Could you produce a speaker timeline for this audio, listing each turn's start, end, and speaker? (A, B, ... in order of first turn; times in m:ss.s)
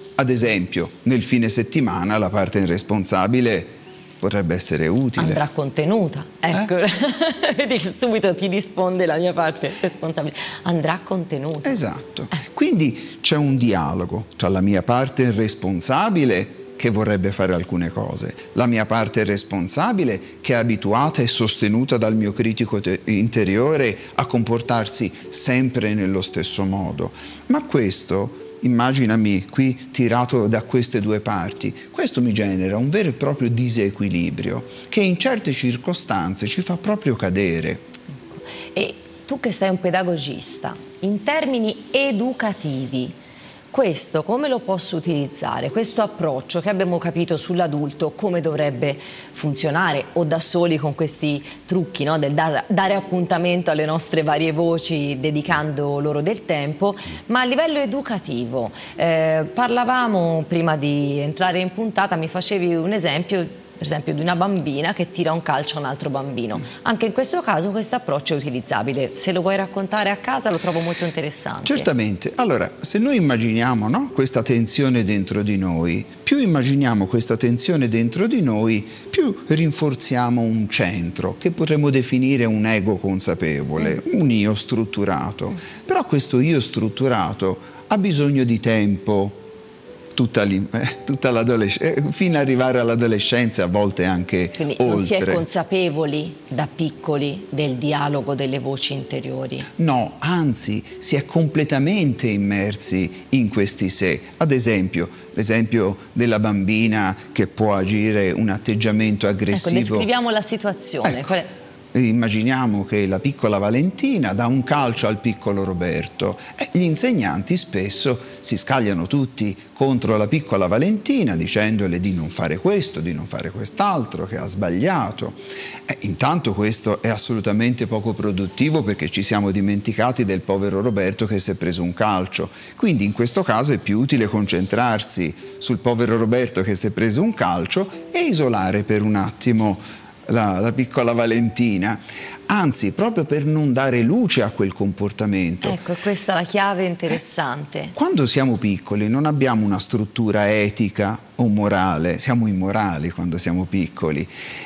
0:00.2-0:05.4 A
0:05.2-0:11.8 B
0:11.6-0:37.8 A
0:38.3-0:43.2 B
0:43.7-1:11.9 B
1:11.6-1:29.4 A
1:30.1-1:35.4 A
1:34.6-1:39.7 B
1:39.8-1:50.1 A
1:49.5-1:51.5 B
1:51.9-2:25.8 A
2:25.6-2:27.9 B
2:28.0-2:34.3 A